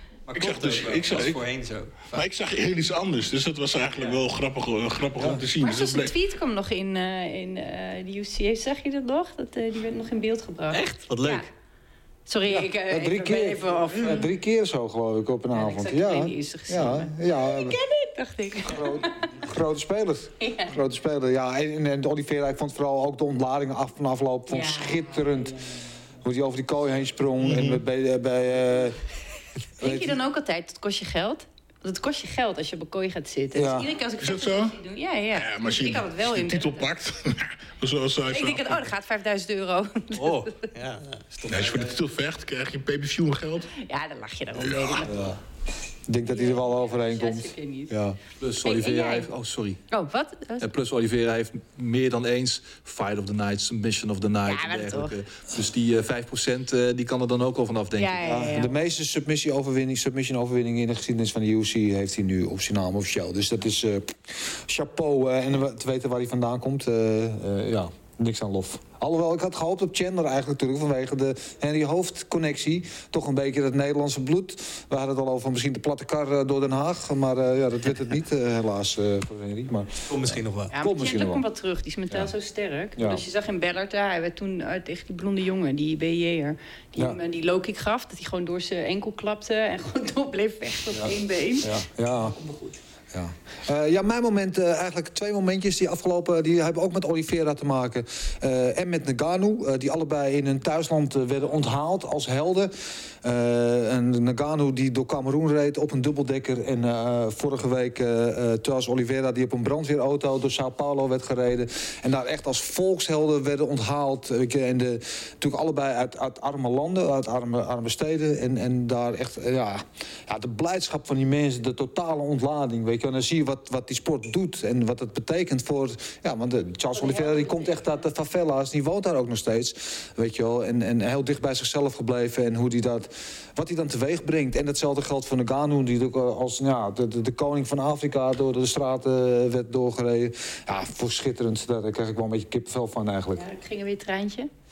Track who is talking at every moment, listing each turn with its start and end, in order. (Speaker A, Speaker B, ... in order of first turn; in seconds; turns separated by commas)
Speaker A: 0.3-2.2, Speaker B: 0.3-1.4, Speaker B: 2.1-6.2, Speaker C: 5.6-11.5, Speaker A: 10.7-11.5, Speaker C: 12.3-14.3, Speaker D: 12.5-17.8, Speaker C: 15.5-19.3, Speaker D: 18.6-25.6, Speaker C: 20.4-20.7, Speaker C: 24.5-25.2, Speaker D: 26.2-29.0, Speaker B: 27.4-27.8, Speaker C: 29.8-36.8, Speaker D: 29.8-30.2, Speaker D: 33.5-33.9, Speaker B: 34.2-34.8, Speaker B: 35.3-38.8, Speaker C: 38.3-40.7, Speaker A: 40.2-42.0, Speaker B: 41.5-43.7, Speaker C: 43.8-45.2, Speaker B: 44.5-45.1, Speaker D: 45.1-45.4, Speaker D: 46.1-48.2, Speaker C: 46.3-47.9, Speaker E: 48.4-49.8, Speaker C: 48.6-49.3, Speaker C: 49.9-50.6, Speaker E: 50.6-58.3, Speaker C: 54.5-55.1, Speaker C: 57.9-58.7, Speaker D: 58.2-79.9, Speaker A: 80.1-80.7, Speaker C: 80.7-92.8, Speaker D: 80.8-81.4, Speaker D: 83.0-83.2, Speaker D: 90.9-92.3, Speaker D: 93.1-143.4, Speaker C: 126.9-127.9, Speaker C: 143.4-144.5